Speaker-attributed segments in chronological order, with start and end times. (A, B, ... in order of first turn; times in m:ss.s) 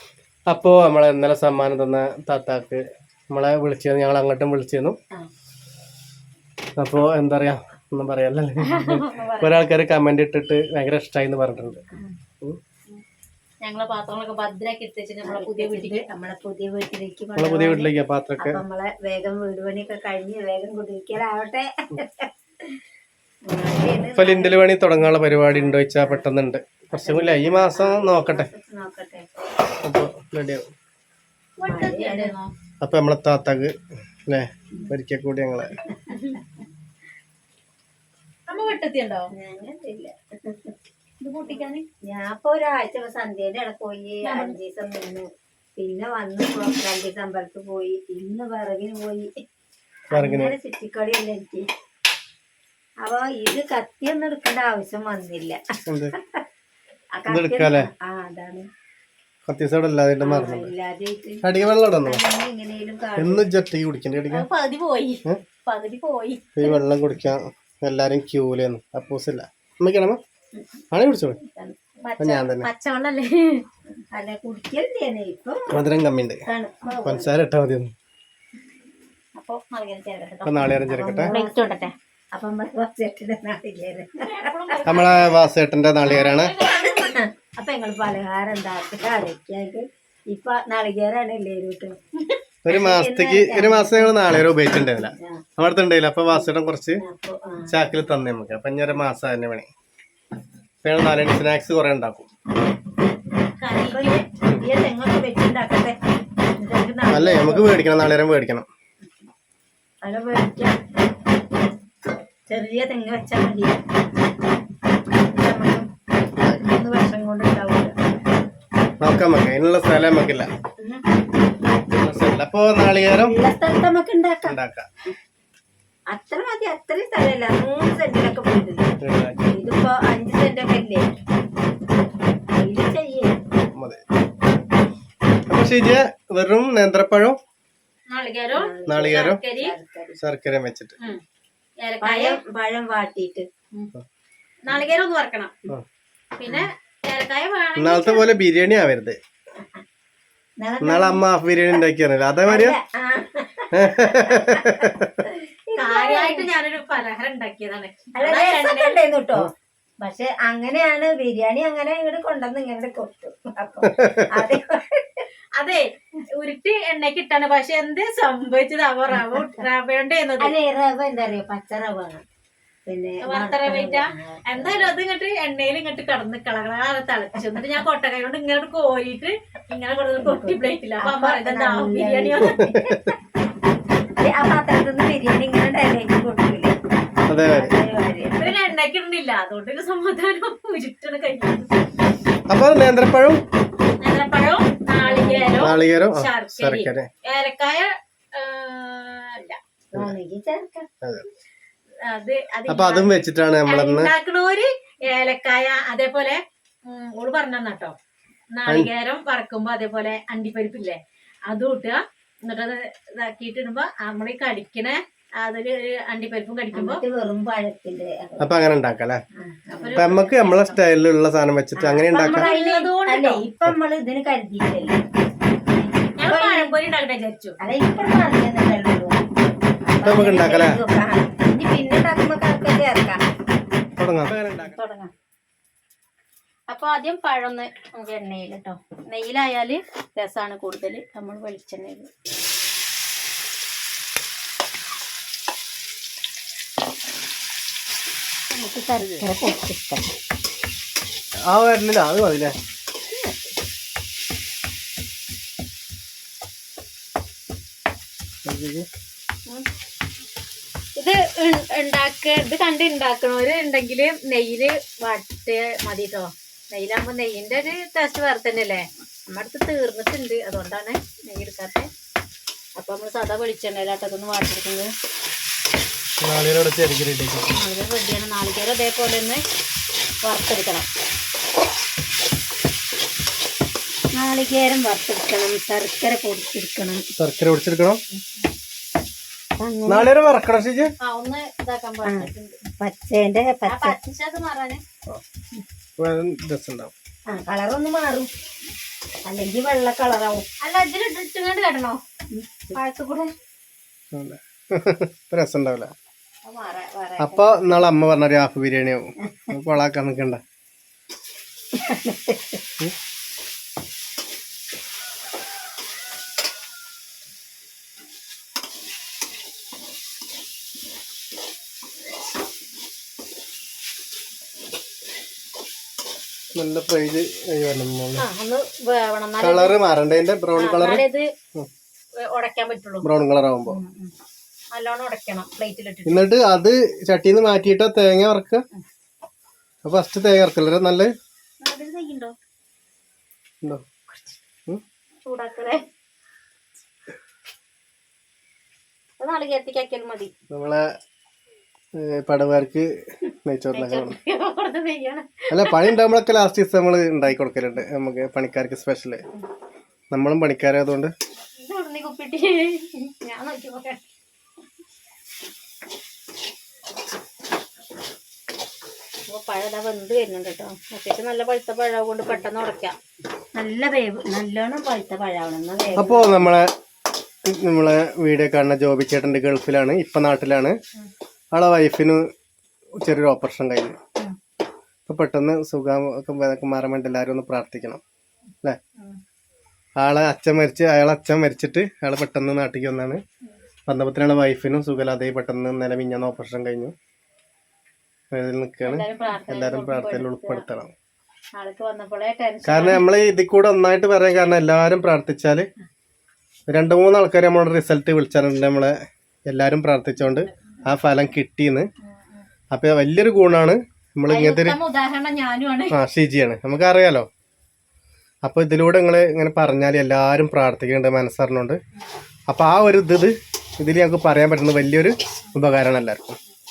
0:00.5-0:05.0 A
0:06.8-0:11.8 A
0:08.6-0:09.6 B
0:13.6-0:16.0 B
0:15.2-0:22.8 C
0:17.4-0:18.6 A
0:23.4-0:24.6 C
0:24.1-0:28.5 A
0:25.5-0:26.2 C
0:26.9-0:29.3 C
0:29.8-0:30.7 A
0:31.6-0:32.5 B
0:31.6-0:32.3 C
0:32.8-0:33.7 A
0:34.3-0:35.7 A
0:35.8-0:36.6 C
0:36.1-0:36.4 B
0:38.5-0:39.3 B
0:39.3-0:40.7 C
0:41.2-0:41.8 B
0:41.5-0:49.3 C
0:44.2-0:44.6 B
0:50.1-0:51.7 C
0:50.1-0:50.5 A
0:53.0-0:55.6 C
0:55.9-0:56.1 A
0:56.1-0:56.4 C
0:57.1-0:58.7 C
0:57.3-0:57.9 A
0:59.5-1:00.7 A
1:00.2-1:01.4 C
1:01.4-1:02.2 A
1:02.0-1:03.4 C
1:03.2-1:04.4 A
1:04.3-1:06.8 B
1:06.6-1:10.2 A
1:10.5-1:10.8 C
1:10.9-1:11.4 A
1:11.5-1:12.0 C
1:12.0-1:13.6 B
1:12.2-1:12.7 A
1:14.1-1:15.8 C
1:15.7-1:16.4 A
1:16.4-1:17.3 C
1:17.0-1:17.9 A
1:19.4-1:20.7 B
1:20.4-1:21.3 A
1:20.8-1:25.0 C
1:21.3-1:21.9 B
1:24.2-1:25.3 B
1:24.8-1:26.5 A
1:26.0-1:27.2 B
1:26.1-1:32.0 C
1:32.6-1:37.0 A
1:32.7-1:34.2 C
1:34.9-1:35.4 C
1:37.0-1:37.8 C
1:37.7-1:39.7 A
1:40.8-1:42.3 A
1:43.6-1:44.2 B
1:43.9-1:46.0 C
1:46.6-1:47.7 C
1:47.1-1:48.6 A
1:50.0-1:50.8 C
1:52.5-1:53.8 C
1:55.3-1:55.8 C
1:56.6-1:57.9 C
1:59.0-2:00.5 A
2:00.8-2:01.0 C
2:01.9-2:03.4 A
2:03.2-2:04.6 C
2:04.4-2:04.9 A
2:06.1-2:09.0 C
2:09.0-2:09.5 A
2:09.5-2:11.1 C
2:12.5-2:13.4 C
2:13.7-2:14.0 A
2:15.5-2:17.4 A
2:18.1-2:19.7 B
2:18.5-2:20.2 C
2:18.9-2:19.4 A
2:20.2-2:20.9 A
2:21.8-2:22.4 B
2:22.0-2:23.5 C
2:24.6-2:25.5 B
2:26.4-2:28.2 B
2:27.8-2:29.2 A
2:30.6-2:31.2 C
2:30.8-2:32.8 A
2:32.4-2:36.5 C
2:33.7-2:35.2 A
2:35.8-2:39.0 B
2:38.1-2:45.3 C
2:43.8-2:44.3 A
2:45.6-2:50.5 B
2:49.1-2:49.6 C
2:50.4-2:52.2 C
2:52.8-2:55.0 C
2:53.2-3:02.7 B
3:00.2-3:03.2 C
3:02.5-3:03.1 A
3:04.2-3:06.8 C
3:07.3-3:07.7 A
3:07.4-3:08.6 C
3:08.3-3:11.7 B
3:12.5-3:13.4 A
3:14.0-3:19.6 B
3:15.0-3:15.8 C
3:15.6-3:17.1 A
3:19.9-3:20.9 C
3:22.0-3:23.1 B
3:22.7-3:24.1 A
3:23.7-3:27.9 B
3:28.5-3:37.0 B
3:36.7-3:38.6 C
3:38.4-3:39.2 A
3:39.4-3:40.1 C
3:39.8-3:40.8 B
3:40.0-3:42.5 A
3:41.8-3:45.0 C
3:42.2-3:43.4 B
3:45.7-3:46.7 C
3:46.2-3:47.6 B
3:47.6-3:49.2 C
3:49.8-3:53.2 C
3:50.0-3:50.8 A
3:54.0-3:54.8 A
3:54.6-3:55.1 B
3:56.7-4:02.1 B
4:08.5-4:10.1 C
4:11.4-4:12.6 A
4:18.4-4:18.9 A
4:21.0-4:31.9 B
4:32.8-4:34.9 B
4:36.2-4:37.5 A
4:37.5-4:39.4 B
4:40.2-4:40.9 B
4:44.1-4:47.0 C
4:47.2-4:48.0 A
4:49.6-4:50.1 C
4:49.9-4:50.9 A
4:51.0-4:52.6 B
4:52.0-4:53.9 C
4:53.7-4:54.8 B
4:56.0-4:56.9 A
4:57.3-4:58.3 C
4:59.2-5:00.4 C
5:00.6-5:02.0 B
5:02.3-5:02.8 C
5:02.7-5:03.3 B
5:04.1-5:05.9 A
5:06.4-5:07.6 B
5:07.2-5:10.4 A
5:11.7-5:12.6 C
5:26.5-5:28.2 A
5:28.2-5:29.8 B
5:29.4-5:31.0 A
5:30.6-5:31.3 B
5:32.2-5:33.1 B
5:33.0-5:33.8 A
5:33.7-5:34.1 B
5:34.7-5:36.2 B
5:36.1-5:38.6 A
5:39.8-5:41.1 A
5:41.6-5:42.3 B
5:45.2-5:45.8 B
5:49.2-5:50.3 B
5:50.5-5:50.9 A
5:51.9-5:52.9 A
5:53.4-5:54.2 A
5:53.7-5:55.9 B
5:55.5-5:59.2 A
6:00.1-6:01.1 A
6:01.6-6:04.0 B
6:09.3-6:13.0 B
6:13.5-6:16.5 C
6:16.0-6:16.7 A
6:17.4-6:20.8 A
6:21.5-6:22.2 A
6:23.0-6:24.0 A
6:25.1-6:28.0 A
6:30.0-6:33.2 A
6:33.9-6:36.9 A
6:38.3-6:40.9 A
6:38.8-6:40.6 B
6:41.5-6:43.0 B
6:42.6-6:45.7 A
6:46.7-6:49.0 A
6:49.5-6:51.9 A
6:52.7-6:54.8 A
6:54.3-6:56.0 B
6:55.9-6:57.3 A
6:58.4-7:01.8 A
7:02.5-7:06.4 A